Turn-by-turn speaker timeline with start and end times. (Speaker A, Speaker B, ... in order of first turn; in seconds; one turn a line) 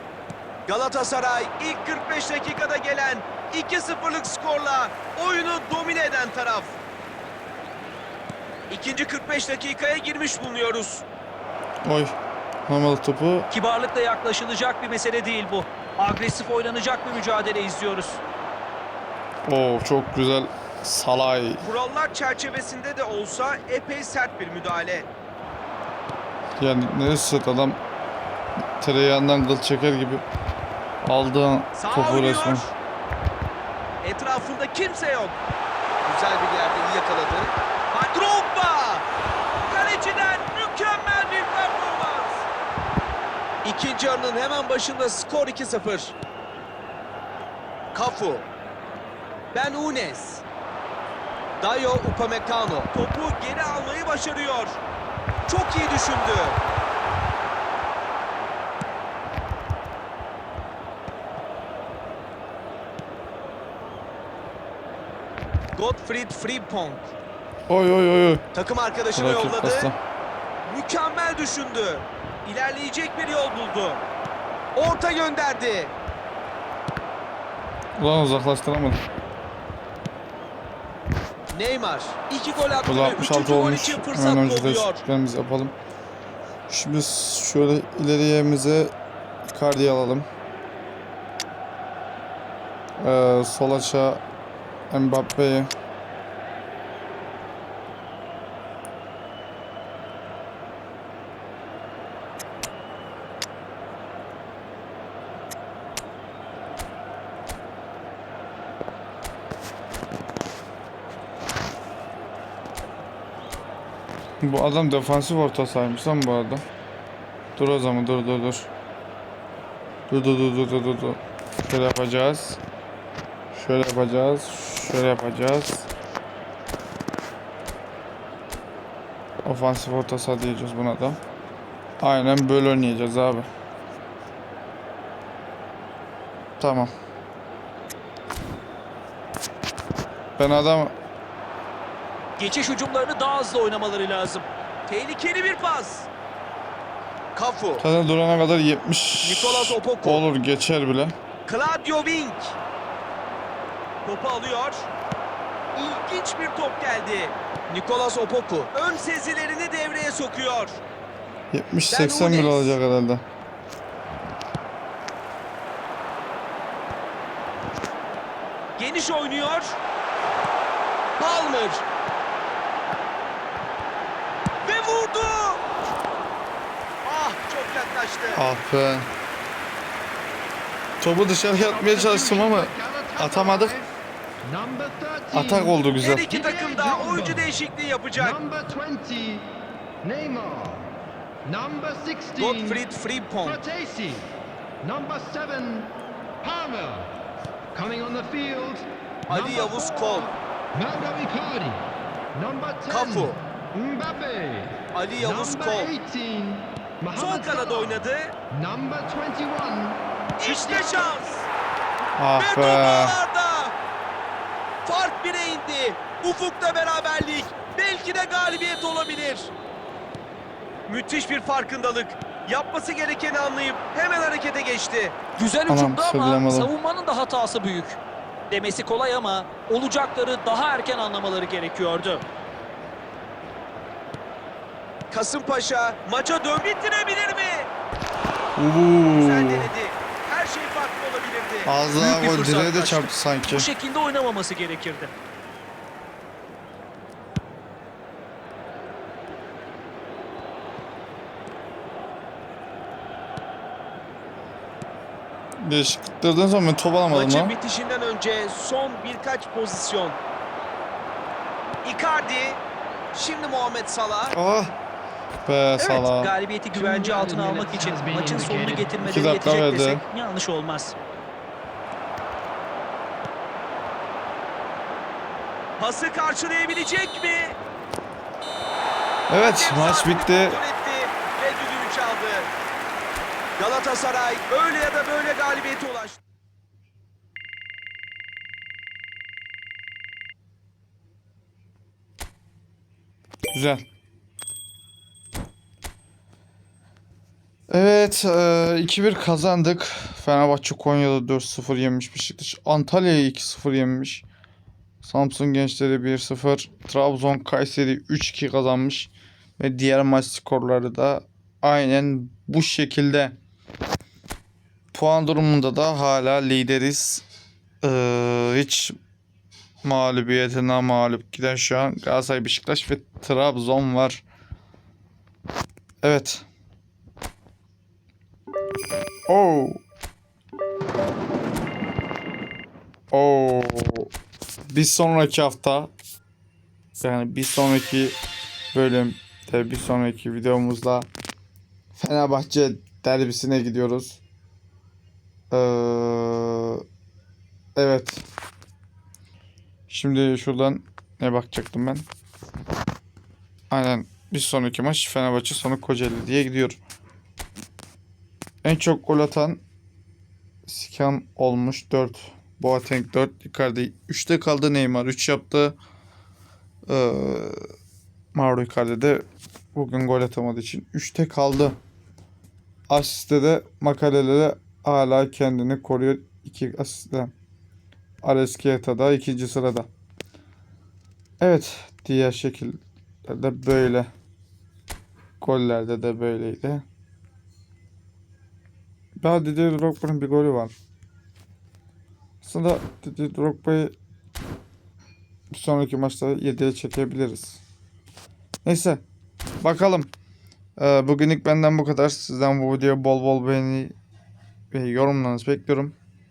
Speaker A: 0.7-6.8
Speaker A: 8.7-11.1
Speaker B: 11.8-12.2
Speaker B: 12.7-13.5
Speaker C: 13.5-18.2
Speaker B: 19.5-21.6
Speaker A: 21.6-25.1
Speaker B: 26.6-27.8
Speaker B: 28.8-30.2
Speaker B: 31.0-32.7
Speaker A: 31.8-32.7
Speaker A: 34.0-35.4
Speaker A: 36.0-39.0
Speaker A: 39.7-42.5
Speaker A: 43.6-46.1
Speaker A: 47.9-48.5
Speaker A: 49.5-50.4
Speaker A: 51.6-54.8
Speaker A: 55.5-56.6
Speaker A: 65.8-67.1
Speaker B: 67.7-68.4
Speaker A: 68.5-69.9
Speaker B: 69.1-70.0
Speaker A: 70.7-74.0
Speaker A: 74.8-75.9
Speaker B: 78.0-79.0
Speaker A: 81.5-85.0
Speaker B: 82.9-85.8
Speaker B: 86.7-88.9
Speaker B: 89.5-90.3
Speaker B: 93.0-94.2
Speaker B: 94.9-95.7
Speaker B: 114.4-116.6
Speaker B: 117.6-118.7
Speaker B: 120.1-122.6
Speaker B: 123.5-125.9
Speaker B: 129.4-131.2
Speaker B: 132.0-133.5
Speaker B: 136.6-136.9
Speaker B: 140.4-140.9
Speaker C: 142.4-144.5
Speaker A: 144.9-146.1
Speaker A: 147.3-147.8
Speaker B: 147.8-151.1
Speaker A: 149.2-150.2
Speaker A: 151.5-152.6
Speaker A: 154.1-154.9
Speaker A: 155.8-160.8
Speaker B: 161.5-163.2
Speaker A: 161.9-162.8
Speaker A: 168.8-169.8
Speaker A: 171.2-171.8
Speaker A: 174.6-175.6
Speaker A: 177.0-178.4
Speaker B: 178.3-179.1
Speaker B: 181.0-183.8
Speaker D: 181.7-187.5
Speaker B: 185.3-186.3
Speaker A: 186.0-188.4
Speaker D: 188.2-190.9
Speaker D: 191.4-192.8
Speaker A: 192.4-193.6
Speaker D: 193.4-194.3
Speaker D: 194.8-197.1
Speaker D: 197.7-208.0
Speaker A: 199.3-200.3
Speaker A: 202.9-203.4
Speaker A: 204.9-205.9
Speaker A: 207.2-208.3
Speaker D: 208.5-211.1
Speaker A: 210.4-211.5
Speaker B: 212.2-213.2
Speaker A: 212.4-213.7
Speaker A: 214.8-219.5
Speaker A: 220.9-225.2
Speaker C: 225.4-228.0
Speaker B: 225.7-226.7
Speaker C: 228.5-232.2
Speaker A: 235.1-237.7
Speaker B: 238.6-239.7
Speaker A: 239.1-243.1
Speaker B: 241.7-243.7
Speaker C: 243.5-245.1
Speaker B: 255.6-257.6
Speaker A: 257.1-260.2
Speaker A: 261.8-262.6
Speaker A: 263.1-264.4
Speaker B: 264.3-264.7
Speaker B: 265.5-266.3
Speaker C: 265.8-270.9
Speaker D: 266.7-269.0
Speaker B: 269.0-270.0
Speaker A: 275.8-277.6
Speaker B: 279.3-280.6
Speaker A: 279.4-282.5
Speaker A: 283.6-286.2
Speaker B: 293.5-293.9
Speaker B: 297.7-304.2
Speaker B: 305.0-313.4
Speaker B: 314.9-317.2
Speaker B: 317.8-319.0
Speaker B: 319.8-324.2
Speaker B: 326.0-326.5
Speaker B: 329.3-329.8
Speaker B: 333.1-334.1
Speaker B: 334.7-335.9
Speaker B: 337.0-338.1
Speaker B: 338.7-341.1
Speaker B: 342.0-344.2
Speaker B: 345.5-346.8
Speaker B: 347.8-348.3
Speaker B: 349.9-352.0
Speaker B: 353.7-356.8
Speaker B: 358.6-359.6
Speaker B: 360.7-365.8
Speaker B: 366.9-367.6
Speaker B: 368.3-371.8
Speaker B: 372.9-377.3
Speaker B: 378.2-379.9
Speaker B: 381.4-384.1
Speaker B: 385.4-386.9
Speaker B: 389.2-390.7
Speaker B: 392.4-393.9
Speaker B: 395.5-397.6
Speaker B: 398.6-399.0
Speaker B: 399.6-400.1
Speaker B: 400.8-403.9
Speaker B: 404.7-405.9